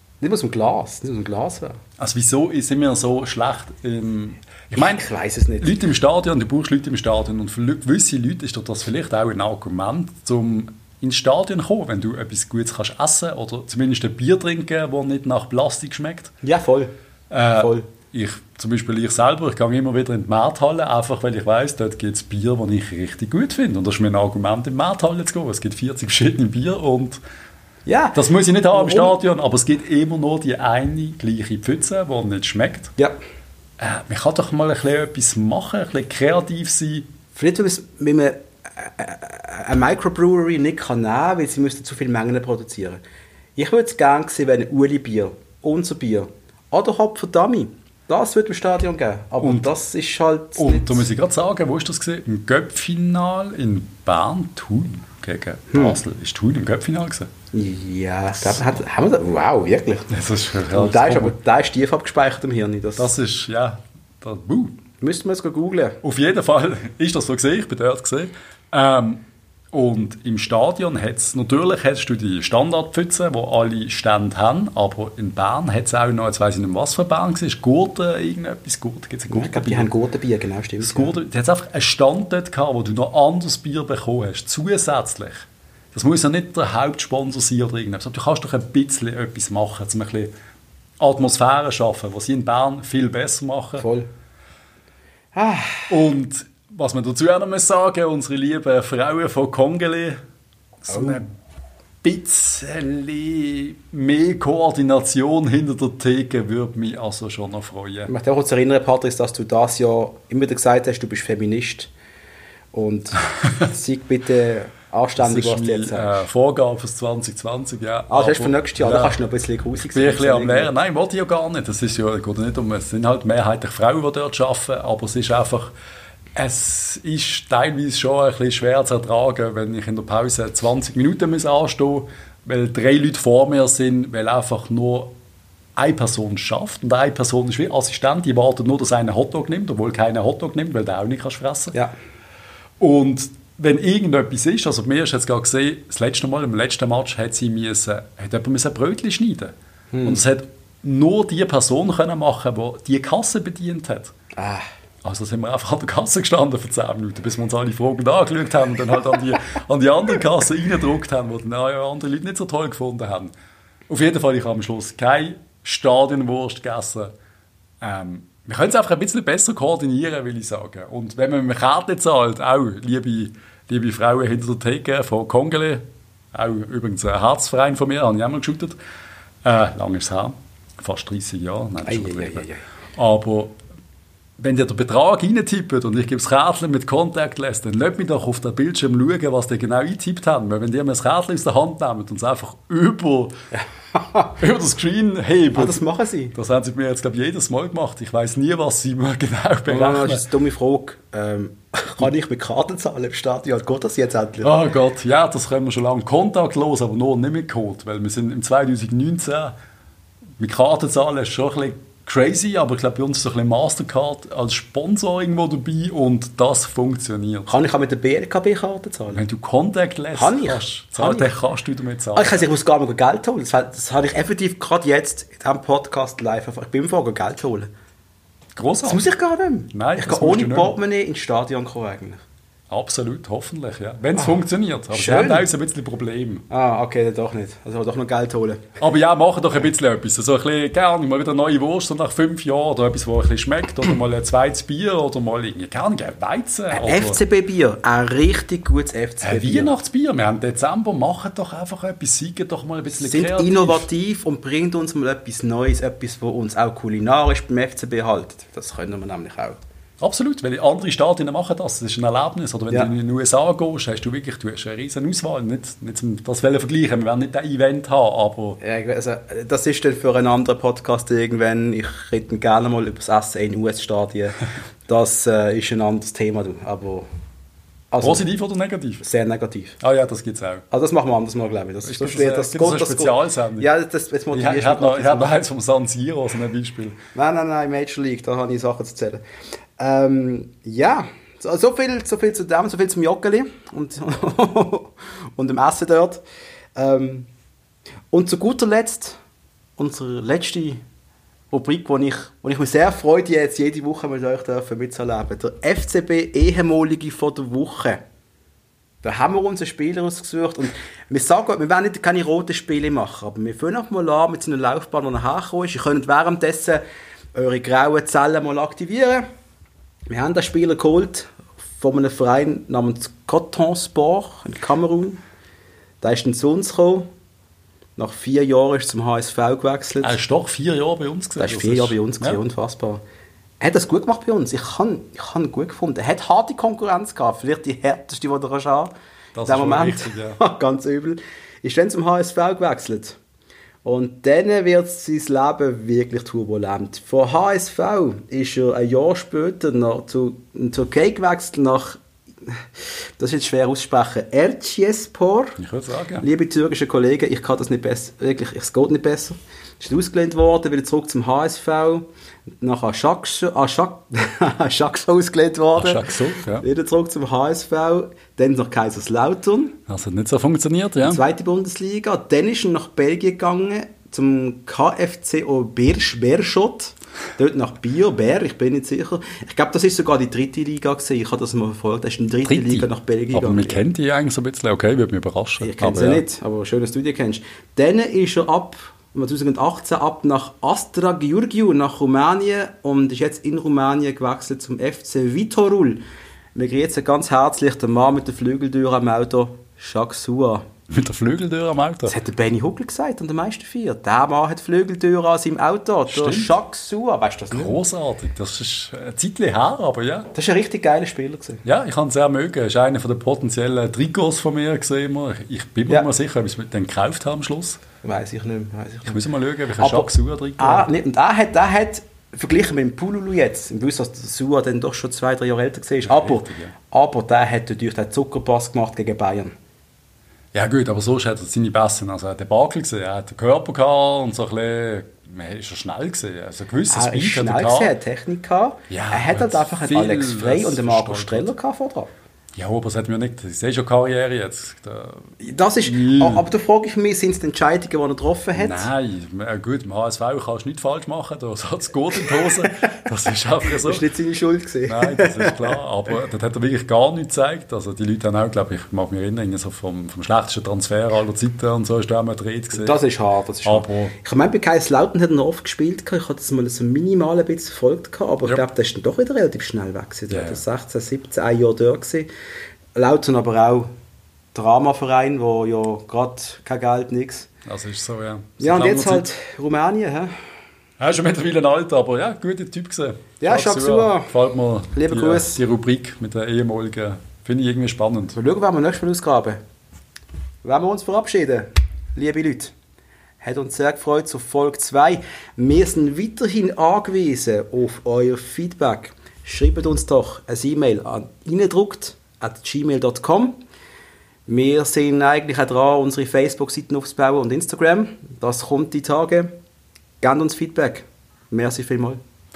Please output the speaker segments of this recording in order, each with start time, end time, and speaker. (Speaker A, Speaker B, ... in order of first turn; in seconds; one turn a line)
Speaker A: 0.2-1.8
Speaker B: 2.0-5.0
Speaker A: 4.7-5.8
Speaker B: 5.6-16.3
Speaker A: 16.4-16.9
Speaker B: 17.3-27.2
Speaker A: 17.5-17.9
Speaker A: 27.9-29.1
Speaker B: 28.1-32.9
Speaker B: 33.8-37.1
Speaker A: 37.3-43.0
Speaker A: 43.6-51.0
Speaker B: 49.4-49.7
Speaker B: 50.5-57.3
Speaker A: 55.7-56.0
Speaker A: 57.5-60.1
Speaker B: 60.1-61.4
Speaker A: 60.7-63.1
Speaker B: 63.0-64.8
Speaker A: 65.0-66.0
Speaker B: 66.0-79.9
Speaker A: 79.3-81.1
Speaker B: 80.8-90.3
Speaker B: 91.0-93.8
Speaker A: 93.8-94.1
Speaker A: 95.3-96.0
Speaker B: 95.9-100.2
Speaker B: 100.8-101.3
Speaker A: 100.9-101.2
Speaker B: 102.0-108.1
Speaker A: 108.1-111.9
Speaker A: 112.7-116.2
Speaker B: 115.2-119.2
Speaker A: 118.1-120.7
Speaker B: 119.9-125.7
Speaker B: 126.3-135.1
Speaker B: 135.8-141.7
Speaker B: 142.8-149.5
Speaker A: 149.9-150.2
Speaker B: 150.0-154.1
Speaker A: 154.3-154.7
Speaker B: 155.0-163.3
Speaker B: 163.9-167.1
Speaker B: 167.8-178.8
Speaker B: 179.4-182.4
Speaker A: 181.8-182.6
Speaker B: 182.9-183.5
Speaker B: 184.4-193.3
Speaker A: 193.5-194.3
Speaker B: 194.4-195.8
Speaker A: 195.5-196.3
Speaker B: 196.3-200.3
Speaker A: 199.7-204.5
Speaker B: 204.4-209.5
Speaker B: 210.4-217.5
Speaker A: 217.5-219.2
Speaker B: 219.1-222.4
Speaker A: 220.1-221.3
Speaker A: 222.1-227.7
Speaker B: 228.5-229.1
Speaker A: 228.8-232.2
Speaker B: 229.7-230.8
Speaker B: 232.7-236.4
Speaker A: 234.9-235.5
Speaker A: 236.5-238.7
Speaker B: 238.8-247.2
Speaker A: 246.7-249.7
Speaker B: 249.2-253.8
Speaker A: 253.0-259.6
Speaker B: 260.0-268.6
Speaker A: 268.6-277.1
Speaker A: 277.9-278.2
Speaker B: 278.0-279.0
Speaker A: 279.0-279.8
Speaker B: 279.8-280.6
Speaker A: 280.7-285.3
Speaker B: 281.8-283.7
Speaker B: 284.3-287.0
Speaker A: 287.1-289.2
Speaker A: 289.8-296.2
Speaker A: 296.8-297.3
Speaker A: 298.1-299.2
Speaker A: 299.8-300.8
Speaker A: 301.5-308.0
Speaker A: 309.0-316.8
Speaker A: 317.3-319.2
Speaker A: 320.1-325.2
Speaker A: 326.0-327.1
Speaker A: 328.0-330.2
Speaker B: 330.0-332.4
Speaker A: 331.4-333.0
Speaker A: 333.6-338.9
Speaker B: 339.3-340.4
Speaker A: 339.4-343.2
Speaker A: 343.8-352.6
Speaker A: 353.2-355.6
Speaker B: 355.6-356.2
Speaker A: 356.2-362.1
Speaker A: 362.6-369.8
Speaker B: 365.7-366.6
Speaker B: 369.9-371.2
Speaker A: 371.0-383.8
Speaker B: 382.5-386.2
Speaker A: 385.6-396.0
Speaker A: 396.5-400.7
Speaker B: 400.9-402.1
Speaker A: 402.1-407.8
Speaker B: 406.1-406.6
Speaker B: 407.5-410.3
Speaker A: 410.3-411.6
Speaker B: 411.6-417.8
Speaker A: 418.0-419.2
Speaker B: 419.1-420.9
Speaker A: 419.8-429.5
Speaker B: 426.0-426.7
Speaker B: 430.5-437.9
Speaker A: 436.9-442.1
Speaker B: 438.9-441.5
Speaker B: 442.5-446.4
Speaker A: 445.4-448.9
Speaker B: 448.5-454.0
Speaker A: 453.8-455.8
Speaker B: 454.9-463.0
Speaker A: 462.7-472.3
Speaker B: 463.6-464.1
Speaker B: 470.3-470.6
Speaker A: 472.9-473.9
Speaker A: 474.5-477.5
Speaker B: 477.6-479.3
Speaker A: 478.6-480.3
Speaker B: 481.0-488.4
Speaker A: 483.4-484.3
Speaker A: 484.9-485.6
Speaker A: 488.3-489.6
Speaker A: 490.6-492.7
Speaker A: 493.4-503.6
Speaker A: 504.5-509.5
Speaker A: 510.2-512.2